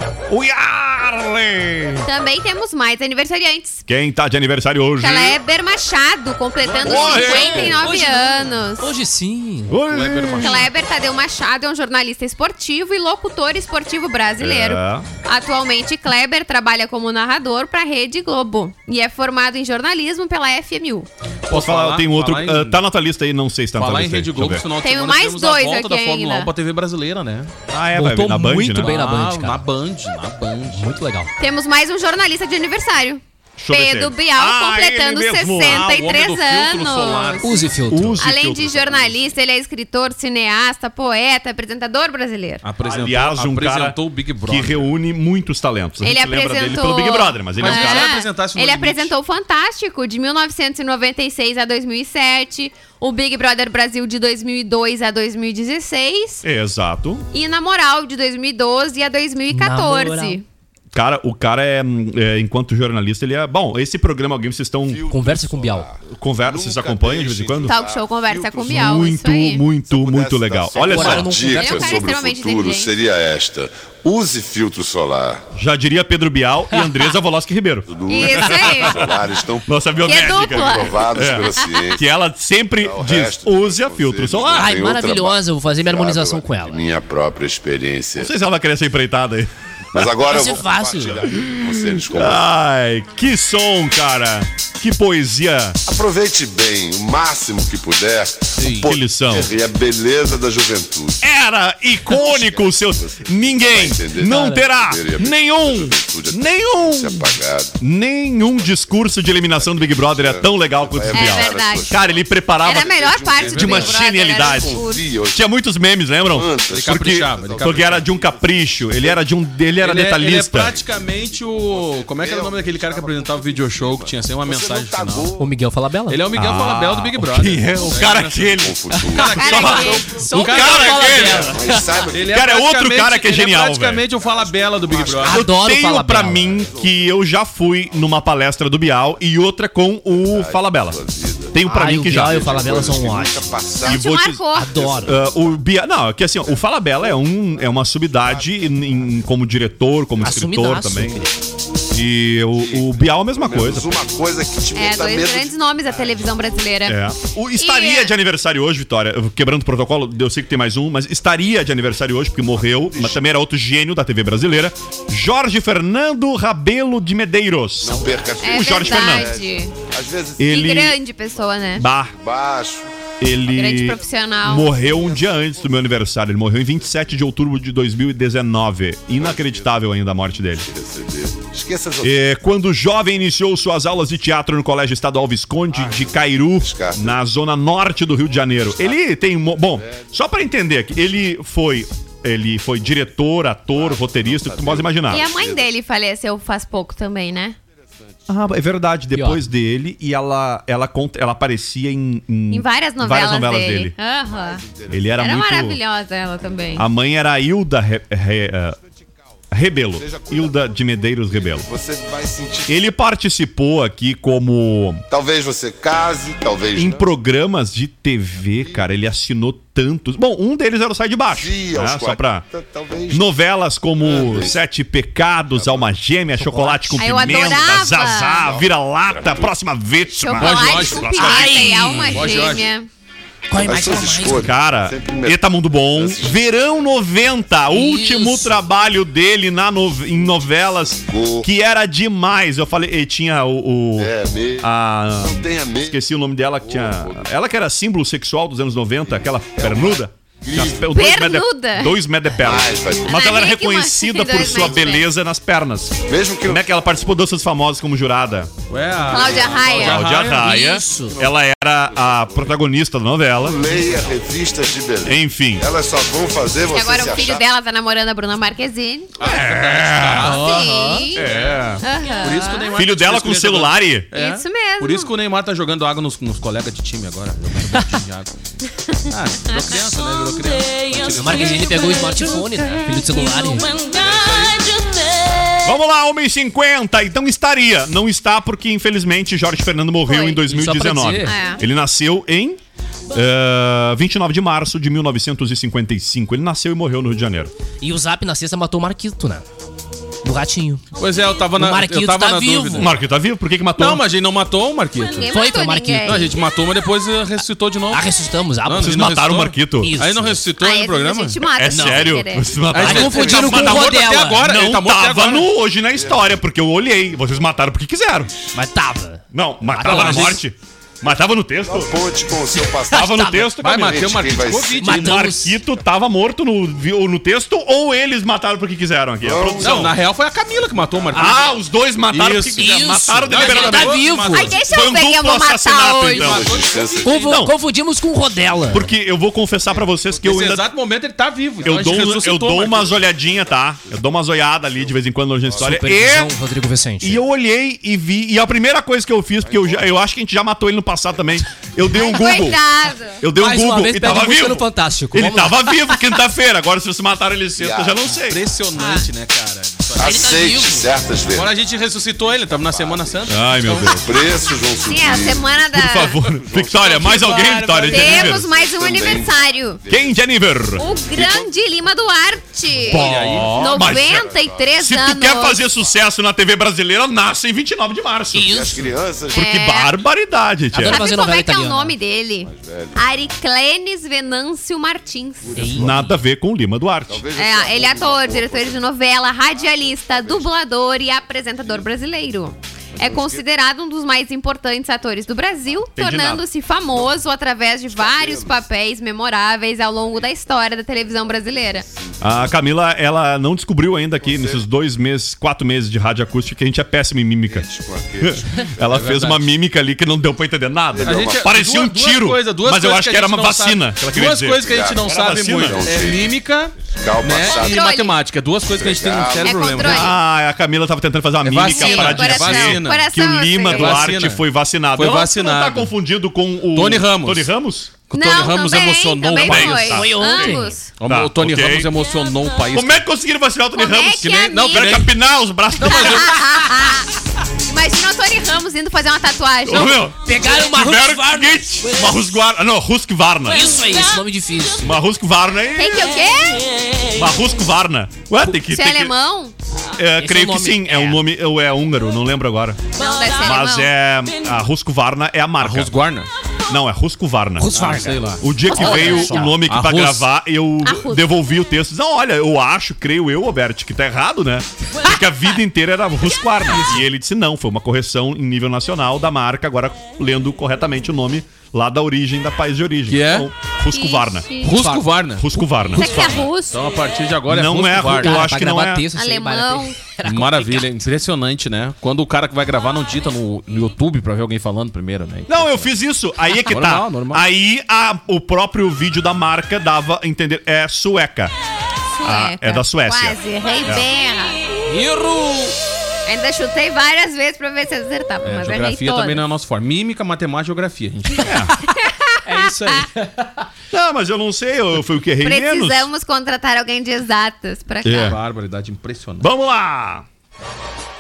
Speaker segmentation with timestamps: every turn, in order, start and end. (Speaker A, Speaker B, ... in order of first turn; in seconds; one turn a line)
Speaker A: 0.3-2.1
Speaker B: 2.0-3.8
Speaker A: 3.9-5.4
Speaker B: 5.0-8.9
Speaker A: 6.8-7.8
Speaker C: 6.9-9.8
Speaker A: 9.7-10.6
Speaker D: 9.9-10.7
Speaker B: 10.4-21.1
Speaker A: 14.4-15.1
Speaker D: 21.5-22.8
Speaker A: 21.5-24.6
Speaker D: 23.8-27.5
Speaker B: 24.8-26.5
Speaker A: 27.7-28.9
Speaker C: 27.9-29.7
Speaker D: 28.7-30.9
Speaker C: 30.7-31.3
Speaker B: 31.4-37.5
Speaker A: 33.6-36.1
Speaker D: 35.6-37.8
Speaker C: 37.4-38.2
Speaker A: 37.9-39.2
Speaker B: 38.2-42.6
Speaker D: 42.6-44.9
Speaker A: 42.9-48.2
Speaker B: 46.0-56.4
Speaker D: 47.6-49.1
Speaker A: 56.4-57.2
Speaker B: 57.3-60.4
Speaker C: 59.5-60.4
Speaker A: 60.9-65.1
Speaker E: 64.9-69.2
Speaker C: 65.1-65.9
Speaker A: 66.0-67.8
Speaker B: 67.7-69.7
Speaker A: 68.6-71.3
Speaker E: 69.8-75.5
Speaker C: 70.8-72.1
Speaker B: 71.5-72.9
Speaker A: 75.5-79.2
Speaker E: 77.9-82.0
Speaker B: 78.1-79.1
Speaker A: 79.7-84.8
Speaker B: 80.1-81.0
Speaker B: 81.6-81.9
Speaker E: 82.8-88.3
Speaker C: 84.5-86.8
Speaker A: 88.2-90.1
Speaker E: 89.9-92.4
Speaker C: 90.2-91.3
Speaker A: 91.3-95.8
Speaker E: 95.9-101.3
Speaker C: 98.6-98.9
Speaker A: 98.8-99.5
Speaker A: 101.2-120.8
Speaker E: 102.1-107.8
Speaker C: 104.3-104.7
Speaker E: 108.6-115.5
Speaker B: 111.1-111.9
Speaker B: 112.6-115.0
Speaker D: 113.4-113.8
Speaker E: 116.3-119.2
Speaker D: 116.7-118.1
Speaker D: 119.8-125.3
Speaker E: 120.5-125.5
Speaker C: 125.4-126.2
Speaker D: 126.1-131.5
Speaker A: 126.3-131.5
Speaker E: 128.6-130.2
Speaker C: 129.0-129.5
Speaker B: 129.4-130.1
Speaker C: 130.1-132.0
Speaker E: 131.3-132.4
Speaker D: 132.1-135.4
Speaker A: 132.3-134.1
Speaker E: 134.1-137.2
Speaker C: 135.2-136.5
Speaker A: 135.3-141.0
Speaker E: 137.9-138.1
Speaker E: 140.2-144.1
Speaker A: 141.5-142.7
Speaker C: 141.7-143.5
Speaker A: 143.8-144.4
Speaker B: 143.8-144.7
Speaker C: 144.5-145.2
Speaker E: 144.7-145.6
Speaker A: 145.0-151.3
Speaker E: 148.2-149.2
Speaker C: 150.2-151.3
Speaker A: 151.9-154.0
Speaker E: 152.6-155.6
Speaker B: 154.7-157.0
Speaker A: 156.9-169.4
Speaker B: 157.6-158.1
Speaker E: 162.7-163.2
Speaker E: 167.8-170.7
Speaker B: 168.4-169.8
Speaker A: 170.4-171.0
Speaker B: 170.5-171.8
Speaker A: 171.8-172.1
Speaker E: 172.1-172.9
Speaker A: 173.2-180.7
Speaker B: 173.5-174.7
Speaker E: 174.6-175.7
Speaker E: 179.2-179.9
Speaker E: 180.5-182.3
Speaker A: 182.0-195.3
Speaker E: 185.7-187.2
Speaker E: 188.7-189.0
Speaker E: 189.7-190.1
Speaker E: 193.7-195.7
Speaker B: 195.1-197.6
Speaker A: 198.3-203.9
Speaker C: 199.1-199.4
Speaker B: 202.5-204.6
Speaker E: 204.3-205.3
Speaker A: 204.9-205.8
Speaker B: 205.2-206.9
Speaker A: 206.8-208.8
Speaker A: 209.5-211.7
Speaker E: 209.9-212.8
Speaker A: 212.7-215.0
Speaker E: 215.1-217.1
Speaker A: 216.7-222.4
Speaker E: 218.5-218.9
Speaker E: 221.3-223.3
Speaker A: 223.1-231.9
Speaker E: 224.0-224.6
Speaker E: 225.5-225.9
Speaker C: 226.4-227.3
Speaker B: 227.0-228.5
Speaker E: 228.3-229.5
Speaker B: 230.1-232.9
Speaker D: 230.4-232.7
Speaker C: 231.2-232.3
Speaker C: 233.5-234.5
Speaker E: 233.5-236.4
Speaker A: 234.2-258.5
Speaker C: 237.7-238.6
Speaker E: 241.0-241.5
Speaker E: 244.0-246.1
Speaker E: 246.6-247.3
Speaker E: 249.6-251.0
Speaker B: 250.9-252.0
Speaker E: 252.4-253.2
Speaker B: 253.1-255.1
Speaker E: 254.4-255.0
Speaker E: 256.0-257.2
Speaker D: 258.7-260.5
Speaker B: 259.1-260.0
Speaker A: 259.7-263.8
Speaker C: 260.3-261.2
Speaker E: 261.1-262.6
Speaker E: 263.4-267.4
Speaker A: 265.0-265.7
Speaker B: 266.7-269.1
Speaker D: 269.2-278.3
Speaker A: 269.2-270.4
Speaker B: 270.2-271.3
Speaker C: 270.3-271.1
Speaker A: 271.1-271.8
Speaker B: 271.8-272.7
Speaker A: 272.8-274.1
Speaker B: 274.1-275.1
Speaker D: 279.1-282.0
Speaker C: 281.1-284.5
Speaker D: 284.0-284.6
Speaker A: 285.6-292.6
Speaker B: 290.1-290.4
Speaker C: 290.5-291.4
Speaker B: 291.2-291.6
Speaker A: 293.1-297.5
Speaker C: 297.8-299.4
Speaker C: 300.2-300.8
Speaker D: 301.0-302.9
Speaker C: 301.6-302.9
Speaker A: 302.8-304.0
Speaker D: 303.8-305.3
Speaker B: 305.0-306.3
Speaker C: 305.2-306.3
Speaker D: 306.1-308.1
Speaker C: 307.9-309.0
Speaker D: 308.6-311.4
Speaker A: 308.8-309.9
Speaker C: 309.8-310.4
Speaker B: 310.6-312.5
Speaker A: 311.6-318.3
Speaker C: 311.7-312.1
Speaker D: 312.7-315.5
Speaker C: 312.7-314.4
Speaker E: 315.9-316.4
Speaker C: 318.6-320.4
Speaker A: 319.3-322.0
Speaker D: 319.9-320.3
Speaker E: 321.6-324.9
Speaker C: 322.6-323.5
Speaker A: 322.9-324.2
Speaker D: 323.6-325.3
Speaker C: 324.8-325.6
Speaker A: 324.9-330.0
Speaker E: 329.2-329.9
Speaker D: 329.6-331.6
Speaker A: 331.1-334.1
Speaker D: 332.1-334.6
Speaker C: 332.6-334.6
Speaker B: 334.3-336.4
Speaker A: 334.7-336.6
Speaker D: 336.2-337.4
Speaker E: 336.2-337.3
Speaker C: 337.0-338.9
Speaker A: 337.3-337.6
Speaker A: 338.7-340.7
Speaker E: 339.7-340.0
Speaker D: 340.2-342.9
Speaker A: 341.6-346.3
Speaker E: 344.7-345.9
Speaker C: 345.6-347.2
Speaker A: 347.0-352.6
Speaker E: 349.4-350.0
Speaker B: 351.9-353.2
Speaker A: 353.2-358.4
Speaker C: 353.3-356.0
Speaker E: 357.6-358.1
Speaker D: 358.2-360.4
Speaker E: 360.0-361.6
Speaker C: 360.0-361.0
Speaker D: 361.3-364.1
Speaker E: 362.6-363.3
Speaker A: 363.3-364.2
Speaker E: 363.9-367.1
Speaker B: 364.9-366.2
Speaker A: 365.7-368.5
Speaker D: 366.9-368.3
Speaker B: 367.9-369.8
Speaker E: 368.3-370.2
Speaker A: 369.9-371.4
Speaker B: 370.8-375.6
Speaker E: 371.2-371.4
Speaker A: 372.8-378.6
Speaker D: 372.9-373.9
Speaker E: 373.6-376.0
Speaker C: 378.3-379.0
Speaker E: 378.4-379.6
Speaker B: 379.3-379.9
Speaker A: 379.3-381.0
Speaker C: 380.7-381.9
Speaker B: 380.8-385.7
Speaker E: 382.4-383.1
Speaker E: 385.4-386.1
Speaker C: 385.6-386.1
Speaker A: 385.7-387.2
Speaker E: 387.1-388.9
Speaker B: 387.4-401.9
Speaker E: 389.5-390.5
Speaker E: 391.6-391.9
Speaker E: 392.9-393.4
Speaker A: 396.0-396.4
Speaker E: 397.9-398.6
Speaker E: 401.8-402.6
Speaker A: 402.2-407.7
Speaker E: 404.2-404.6
Speaker E: 407.5-408.7
Speaker A: 408.2-416.1
Speaker D: 408.9-409.4
Speaker E: 410.9-411.6
Speaker D: 411.0-420.1
Speaker E: 414.6-417.9
Speaker B: 417.5-418.2
Speaker E: 418.7-419.8
Speaker B: 419.4-420.1
Speaker A: 419.8-427.9
Speaker D: 421.4-423.0
Speaker B: 421.6-424.1
Speaker D: 423.7-424.4
Speaker D: 424.9-425.9
Speaker D: 426.7-427.5
Speaker D: 428.1-430.1
Speaker B: 428.1-430.9
Speaker A: 429.4-431.9
Speaker C: 429.9-430.8
Speaker D: 431.0-433.0
Speaker A: 432.7-436.4
Speaker B: 433.8-435.0
Speaker D: 434.2-435.1
Speaker D: 435.8-436.4
Speaker B: 435.9-437.1
Speaker B: 437.7-440.1
Speaker A: 439.6-443.8
Speaker C: 440.2-442.2
Speaker C: 443.5-444.9
Speaker A: 444.8-446.2
Speaker B: 445.8-446.7
Speaker A: 447.1-449.1
Speaker B: 448.5-449.5
Speaker A: 450.0-455.9
Speaker C: 450.1-451.2
Speaker B: 453.0-453.9
Speaker D: 455.6-456.3
Speaker A: 456.7-474.5
Speaker C: 457.6-459.6
Speaker D: 457.7-460.3
Speaker B: 458.7-459.3
Speaker B: 460.8-461.3
Speaker D: 473.1-473.5
Speaker B: 473.9-474.8
Speaker D: 474.6-478.5
Speaker C: 474.7-475.1
Speaker A: 475.4-476.3
Speaker B: 475.9-476.8
Speaker C: 476.1-476.5
Speaker A: 477.5-479.1
Speaker C: 478.1-481.0
Speaker B: 479.1-480.0
Speaker D: 480.2-485.9
Speaker A: 485.5-491.5
Speaker D: 486.7-487.4
Speaker B: 492.2-494.6
Speaker A: 492.2-494.1
Speaker C: 494.9-495.8
Speaker B: 496.3-499.4
Speaker D: 498.4-501.6
Speaker A: 501.4-501.7
Speaker B: 501.9-503.1
Speaker C: 502.5-503.7
Speaker A: 503.9-506.1
Speaker B: 505.4-508.4
Speaker A: 508.0-508.4
Speaker D: 508.2-509.5
Speaker A: 509.4-510.2